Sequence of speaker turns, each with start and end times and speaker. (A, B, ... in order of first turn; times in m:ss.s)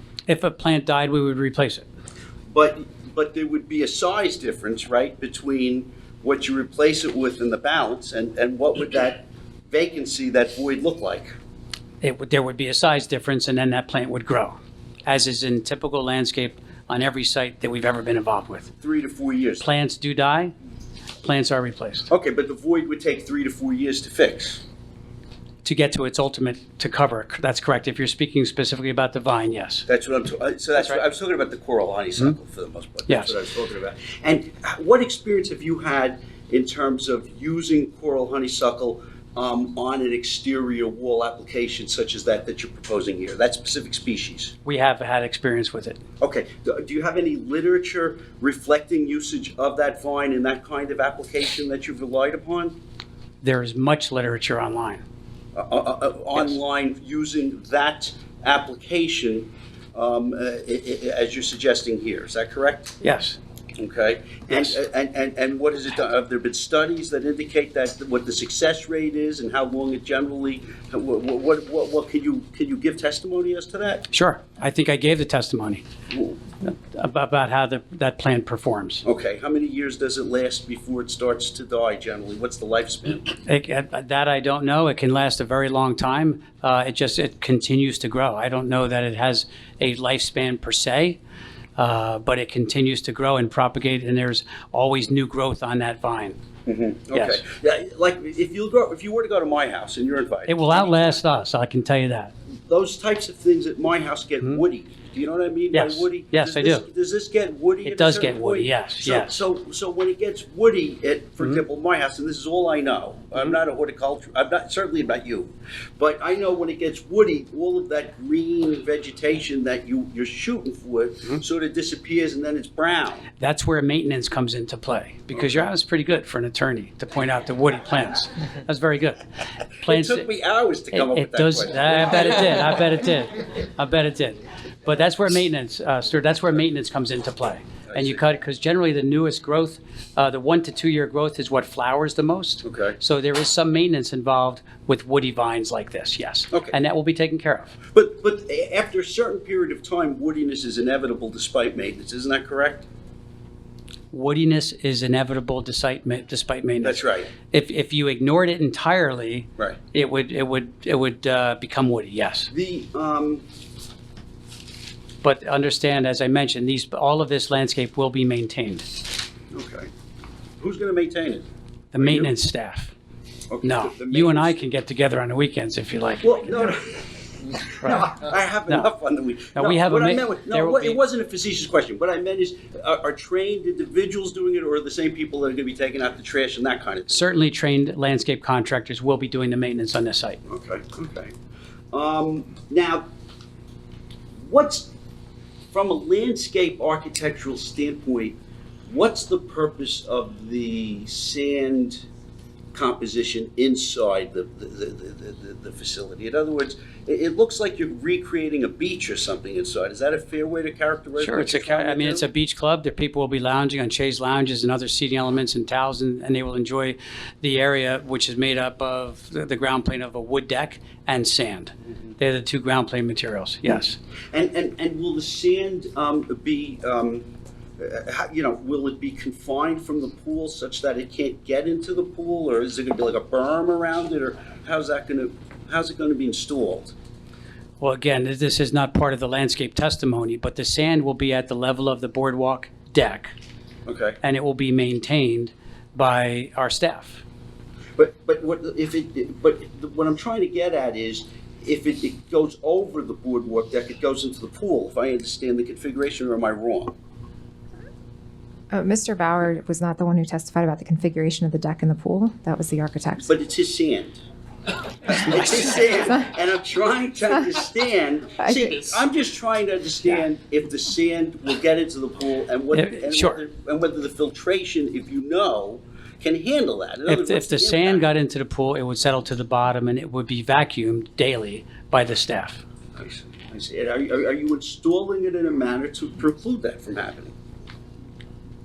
0:00.3-0:01.8 A
0:02.5-0:11.3 B
0:12.0-0:18.7 A
0:18.8-0:19.7 B
0:19.6-0:20.5 A
0:21.2-0:22.1 A
0:22.1-0:24.6 B
0:25.6-0:29.8 A
0:29.9-0:44.5 B
0:44.6-0:46.0 A
0:46.2-0:52.8 B
0:53.4-0:55.0 A
0:55.5-1:02.9 B
1:03.0-1:03.4 A
1:03.8-1:14.1 B
1:14.1-1:15.8 A
1:16.1-1:16.4 B
1:16.6-1:19.0 A
1:19.0-1:23.4 B
1:23.4-1:31.2 A
1:31.8-1:36.4 A
1:36.6-1:41.2 B
1:37.1-1:37.4 A
1:40.5-1:42.3 A
1:42.7-2:03.3 B
1:45.7-1:46.8 A
1:47.8-1:49.3 A
2:03.4-2:09.2 A
2:05.3-2:05.7 B
2:09.8-2:10.2 A
2:09.8-2:12.7 B
2:10.9-2:27.7 A
2:17.9-2:18.2 B
2:22.6-2:23.0 B
2:27.9-2:32.9 B
2:34.1-2:42.5 A
2:36.8-2:37.3 B
2:42.5-2:43.4 B
2:45.2-2:48.8 A
2:49.5-2:49.9 B
2:50.6-2:51.4 B
2:51.9-2:52.9 A
2:52.0-2:52.3 B
2:53.5-2:54.6 B
2:53.6-2:56.5 A
2:56.2-3:07.2 B
2:57.8-2:58.9 A
2:59.5-3:01.0 A
3:07.1-3:10.4 A
3:10.5-3:11.3 B
3:11.9-3:13.1 B
3:14.4-3:14.9 B
3:15.7-3:22.0 B
3:22.7-3:32.2 B
3:31.2-3:44.0 A
3:43.7-3:56.9 B
3:57.8-4:03.3 A
4:03.8-4:04.2 B
4:04.2-4:07.2 A
4:08.0-4:16.9 B
4:18.7-4:23.3 C
4:23.2-4:24.2 B
4:25.0-4:38.0 B
4:32.7-4:33.4 A
4:37.1-4:42.6 A
4:43.0-4:47.3 B